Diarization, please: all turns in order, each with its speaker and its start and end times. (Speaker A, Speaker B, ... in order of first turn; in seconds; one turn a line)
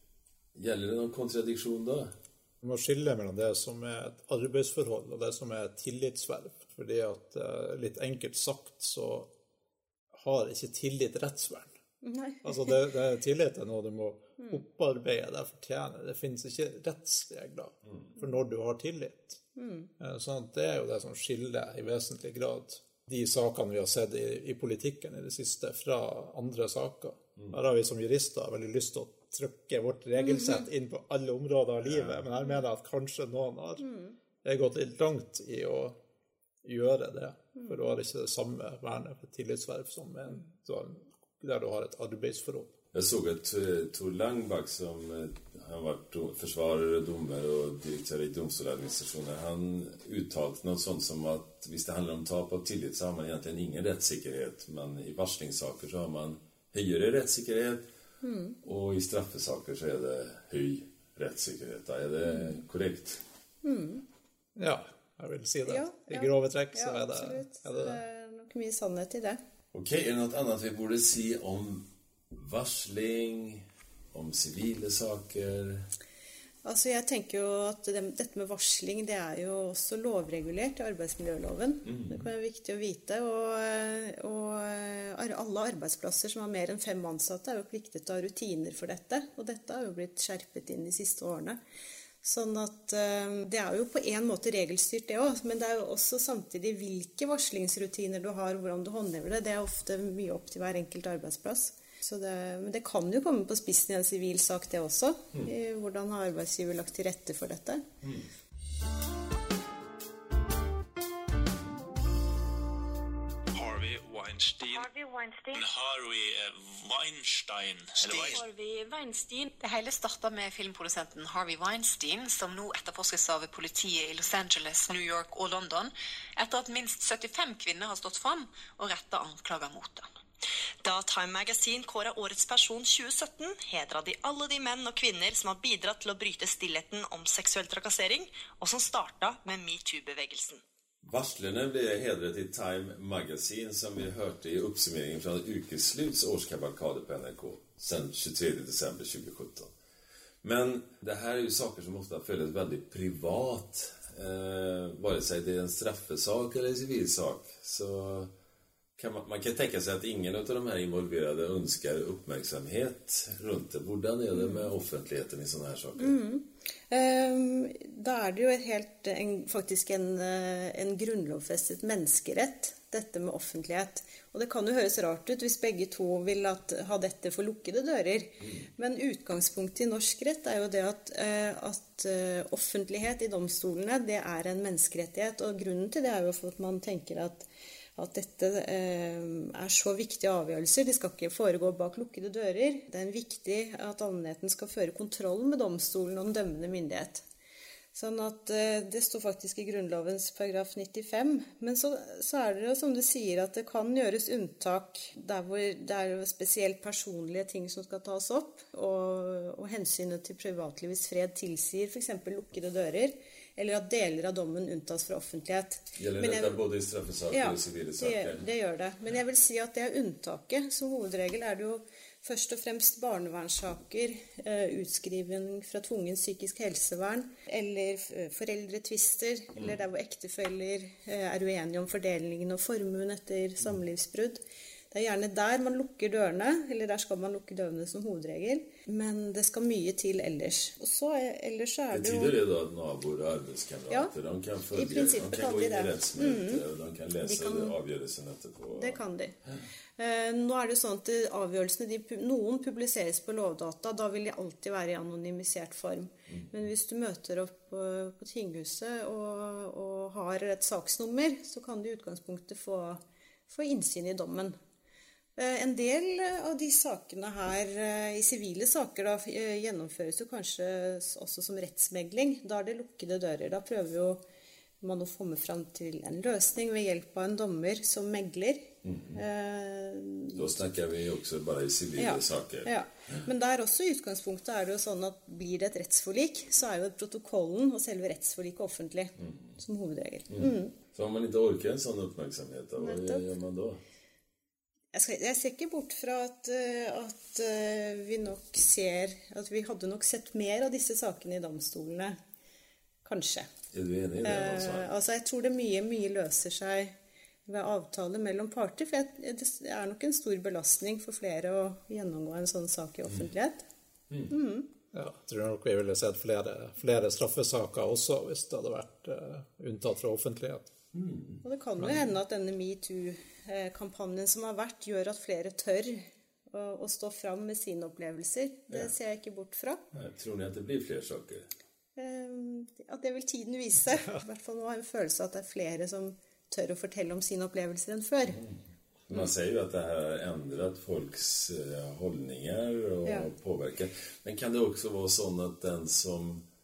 Speaker A: 0.6-2.1
Speaker B: 2.6-9.3
Speaker B: 10.2-11.7
Speaker C: 12.0-12.8
Speaker B: 12.4-19.4
Speaker C: 19.6-19.9
Speaker B: 20.0-33.9
Speaker C: 30.2-30.7
Speaker A: 31.8-32.2
Speaker C: 33.8-34.1
Speaker B: 34.4-36.0
Speaker B: 36.6-42.7
Speaker A: 42.9-57.9
Speaker C: 58.2-58.6
Speaker A: 58.6-63.2
Speaker C: 62.3-62.6
Speaker C: 63.6-64.0
Speaker B: 64.6-68.0
Speaker C: 65.7-69.4
Speaker A: 69.7-75.9
Speaker C: 76.6-91.6
Speaker A: 81.9-82.3
Speaker C: 92.2-107.8
Speaker A: 108.0-108.3
Speaker D: 113.5-114.9
Speaker E: 114.8-115.5
Speaker D: 115.5-118.4
Speaker F: 118.0-130.1
Speaker E: 130.8-140.6
Speaker A: 141.0-149.7
Speaker A: 150.4-158.3
Speaker A: 159.0-166.2
Speaker C: 164.3-164.7
Speaker C: 166.0-197.2
Speaker A: 178.4-178.7
Speaker C: 197.9-216.6
Speaker A: 216.0-218.5
Speaker C: 217.3-242.4
Speaker A: 241.9-249.0
Speaker C: 244.7-246.6
Speaker C: 247.2-247.8
Speaker C: 248.8-249.4
Speaker C: 250.0-264.6
Speaker A: 256.3-256.7
Speaker C: 265.4-274.2
Speaker C: 274.8-280.6
Speaker A: 278.8-279.2
Speaker A: 280.3-283.2
Speaker C: 282.0-290.7
Speaker A: 289.2-289.5
Speaker A: 290.3-293.8
Speaker C: 292.8-293.2
Speaker C: 294.9-302.2
Speaker C: 303.1-303.5
Speaker A: 303.7-304.9
Speaker C: 304.2-306.9
Speaker C: 307.5-313.6
Speaker C: 314.3-314.7
Speaker B: 314.9-320.7
Speaker A: 320.9-321.4
Speaker C: 321.4-329.8
Speaker B: 321.8-322.1
Speaker A: 329.9-331.5
Speaker C: 332.0-338.4
Speaker A: 338.3-346.4